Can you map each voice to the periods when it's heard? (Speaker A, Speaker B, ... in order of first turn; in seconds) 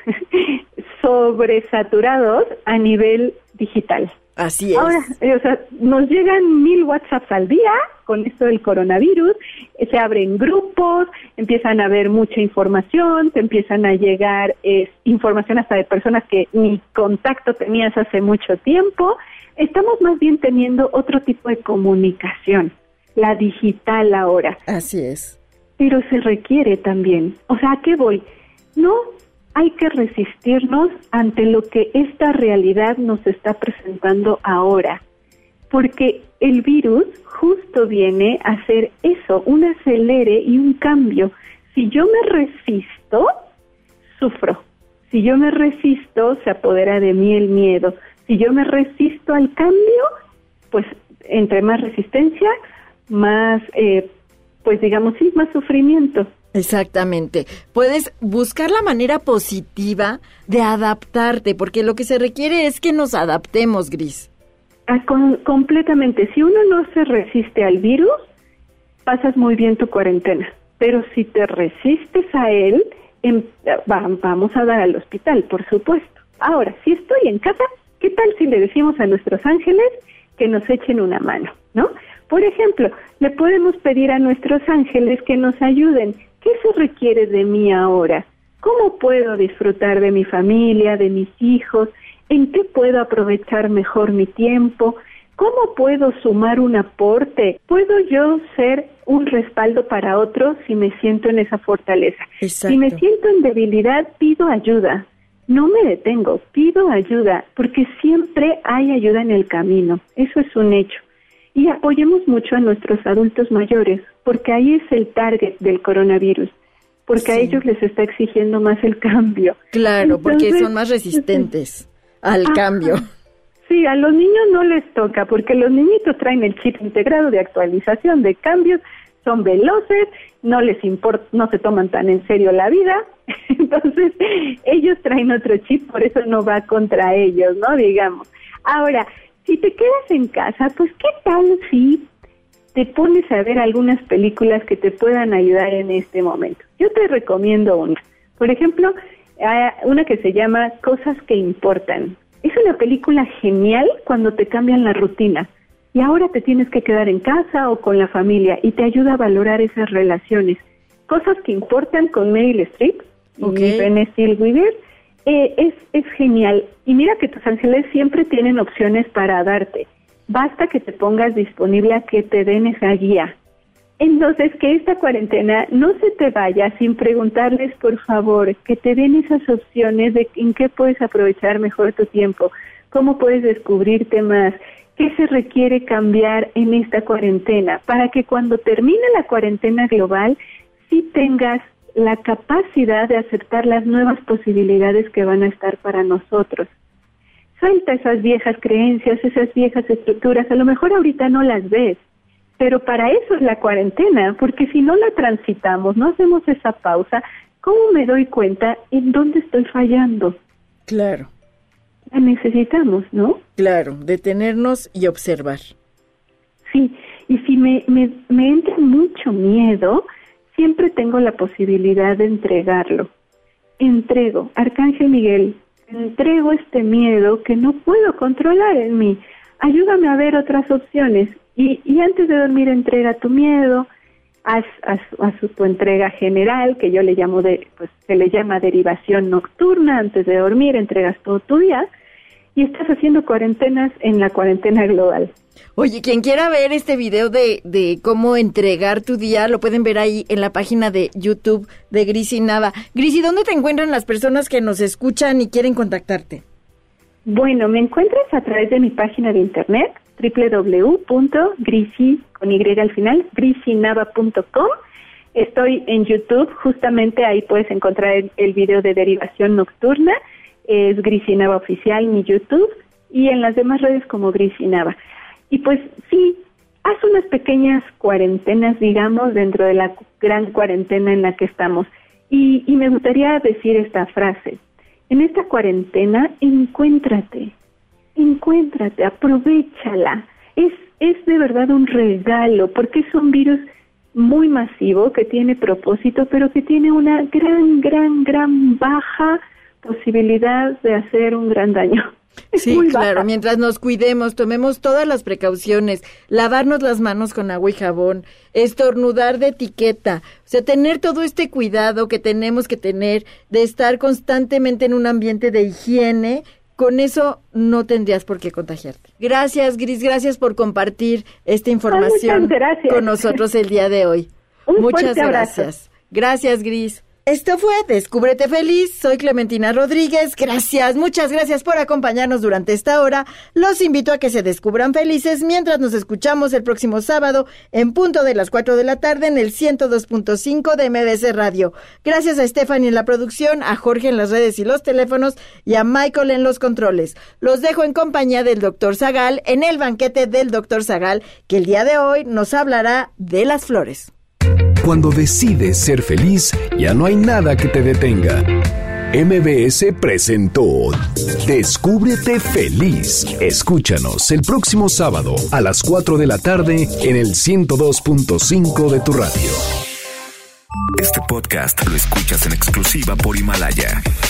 Speaker A: 0.3-4.1, 4.8-24.6, 25.8-35.0, 35.7-43.3, 44.2-50.1, 50.7-52.5, 53.1-54.1, 54.6-56.3, 64.9-68.2, 69.1-111.0, 111.5-116.5, 117.1-121.5, 122.5-123.0, 123.7-142.1, 142.8-173.3, 174.0-190.4, 190.9-196.7, 197.6-202.0, 202.6-210.4, 212.1-213.4, 216.7-223.1, 223.8-233.9, 234.4-241.9, 242.6-245.3, 257.3-264.7, 265.4-270.2, 270.7-275.0, 275.5-287.5, 288.2-293.6, 294.1-303.2, 321.9-323.4, 324.7-325.7
Speaker B: 4.4-5.0, 24.7-25.4, 56.5-64.3, 102.4-103.0, 117.2-117.6, 119.7-123.1, 163.4-163.9, 210.9-211.3, 213.6-215.7, 245.8-256.4, 302.6-354.1
Speaker C: 354.8-358.5, 359.1-369.7
Speaker D: 371.0-374.0